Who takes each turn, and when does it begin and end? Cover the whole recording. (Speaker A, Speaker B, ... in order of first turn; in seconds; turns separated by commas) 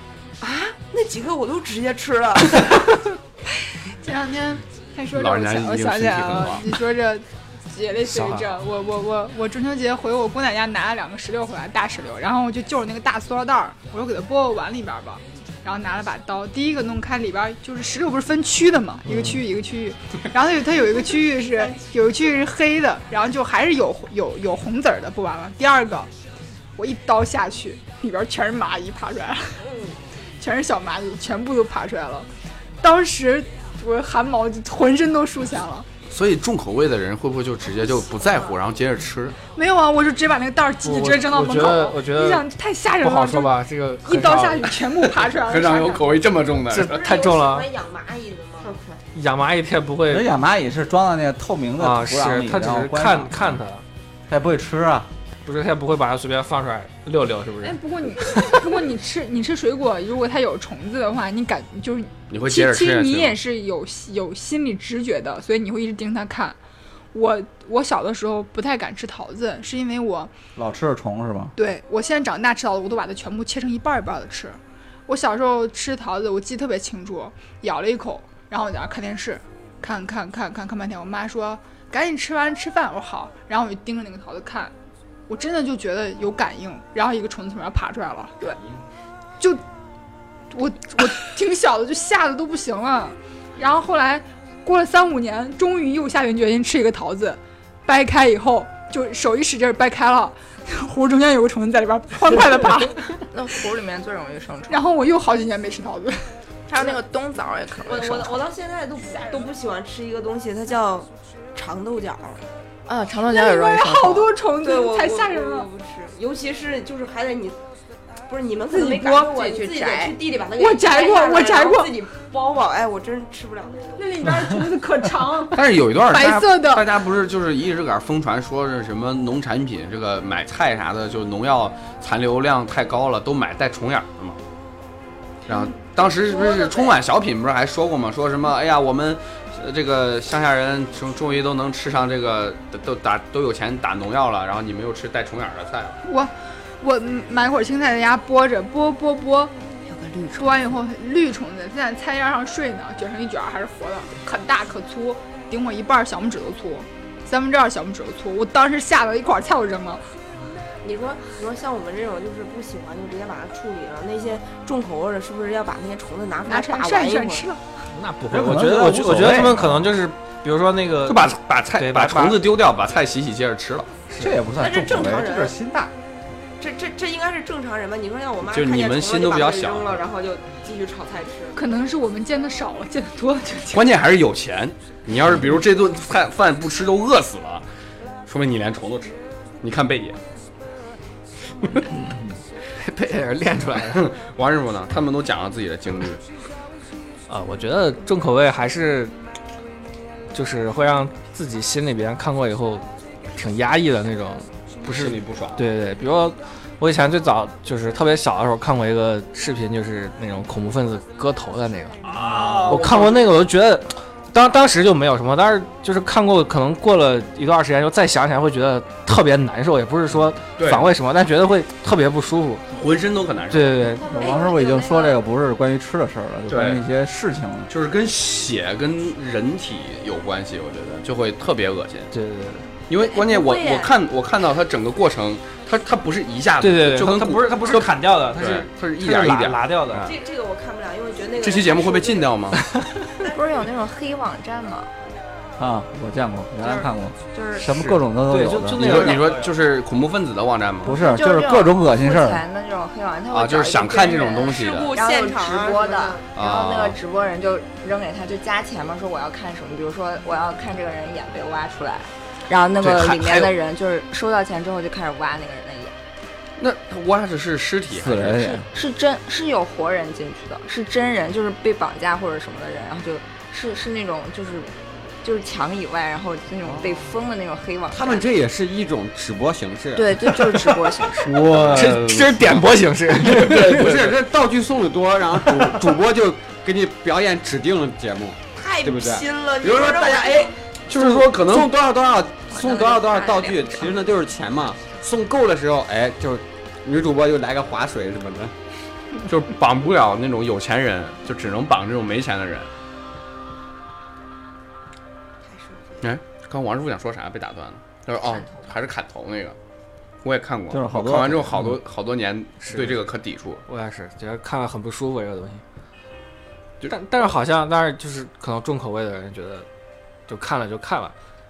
Speaker A: 0.4-2.8, Speaker B: 3.9-26.1, Speaker C: 5.2-6.7, Speaker D: 8.0-8.6, Speaker B: 26.8-29.6, Speaker B: 30.4-32.3, Speaker B: 32.8-35.9, Speaker C: 36.1-39.4, Speaker B: 39.5-43.5, Speaker D: 40.8-42.5, Speaker D: 43.0-44.8, Speaker B: 44.0-46.2, Speaker C: 45.4-47.0, Speaker D: 46.7-47.7, Speaker A: 46.8-48.8, Speaker E: 48.6-48.9, Speaker D: 49.1-50.3, Speaker F: 50.1-53.6, Speaker D: 51.8-53.8, Speaker F: 54.3-55.1, Speaker D: 55.5-57.8, Speaker B: 57.6-66.6, Speaker C: 62.3-63.4, Speaker B: 67.1-70.3, Speaker F: 70.6-71.5, Speaker B: 71.6-84.7, Speaker B: 85.3-88.6, Speaker G: 88.4-88.8, Speaker B: 90.5-103.2, Speaker E: 103.3-104.8, Speaker B: 104.7-106.3, Speaker E: 106.7-108.4, Speaker A: 107.8-112.5, Speaker E: 112.9-114.3, Speaker B: 113.3-115.7, Speaker A: 114.6-117.6, Speaker A: 118.3-124.3, Speaker B: 118.7-119.3, Speaker E: 119.2-120.2, Speaker B: 120.6-121.9, Speaker B: 124.0-126.9, Speaker C: 125.5-134.4, Speaker C: 135.5-146.0, Speaker A: 136.0-136.9, Speaker B: 146.1-149.5, Speaker E: 149.9-150.5, Speaker B: 150.3-160.0, Speaker A: 160.8-167.5, Speaker B: 166.5-167.7, Speaker D: 167.9-172.5, Speaker F: 168.3-170.0, Speaker C: 171.1-173.9, Speaker D: 174.1-174.3, Speaker F: 174.2-175.9, Speaker A: 174.5-175.6, Speaker A: 176.6-181.6, Speaker C: 178.5-180.0, Speaker B: 181.6-183.8, Speaker C: 183.7-187.7, Speaker C: 188.3-190.2, Speaker F: 191.9-192.3, Speaker D: 192.7-194.1, Speaker C: 193.9-196.2, Speaker D: 197.3-199.1, Speaker D: 200.3-212.1, Speaker C: 204.8-205.7, Speaker C: 212.1-213.3, Speaker D: 212.6-222.6, Speaker C: 220.6-220.9, Speaker C: 222.7-223.8, Speaker D: 223.5-224.1, Speaker E: 223.9-225.2, Speaker F: 224.1-227.7, Speaker C: 226.5-226.8, Speaker C: 227.7-232.1, Speaker D: 232.1-232.7, Speaker C: 232.9-240.1, Speaker A: 232.9-233.9, Speaker D: 236.6-240.1, Speaker A: 240.0-242.6, Speaker C: 241.4-242.6, Speaker D: 242.6-242.9, Speaker A: 243.2-243.7, Speaker E: 243.3-244.9, Speaker F: 245.6-249.1, Speaker E: 247.3-247.7, Speaker D: 248.3-249.5, Speaker C: 248.8-251.0, Speaker F: 250.8-252.4, Speaker E: 250.9-266.0, Speaker C: 253.3-254.9, Speaker A: 254.4-256.2, Speaker C: 256.4-257.0, Speaker C: 262.8-263.5, Speaker C: 266.6-268.6, Speaker F: 267.9-268.7, Speaker E: 268.7-278.2, Speaker G: 277.9-280.2, Speaker E: 279.9-281.6, Speaker C: 281.2-282.6, Speaker D: 281.7-283.9, Speaker C: 283.2-284.1, Speaker G: 283.5-298.6, Speaker A: 288.5-290.6, Speaker C: 290.9-291.7, Speaker E: 292.5-294.0, Speaker C: 299.3-302.7, Speaker A: 305.4-306.1, Speaker C: 306.0-309.6, Speaker C: 310.2-313.6, Speaker F: 310.7-311.8, Speaker D: 312.6-313.0, Speaker D: 313.7-315.6, Speaker D: 316.9-319.7, Speaker D: 320.3-321.1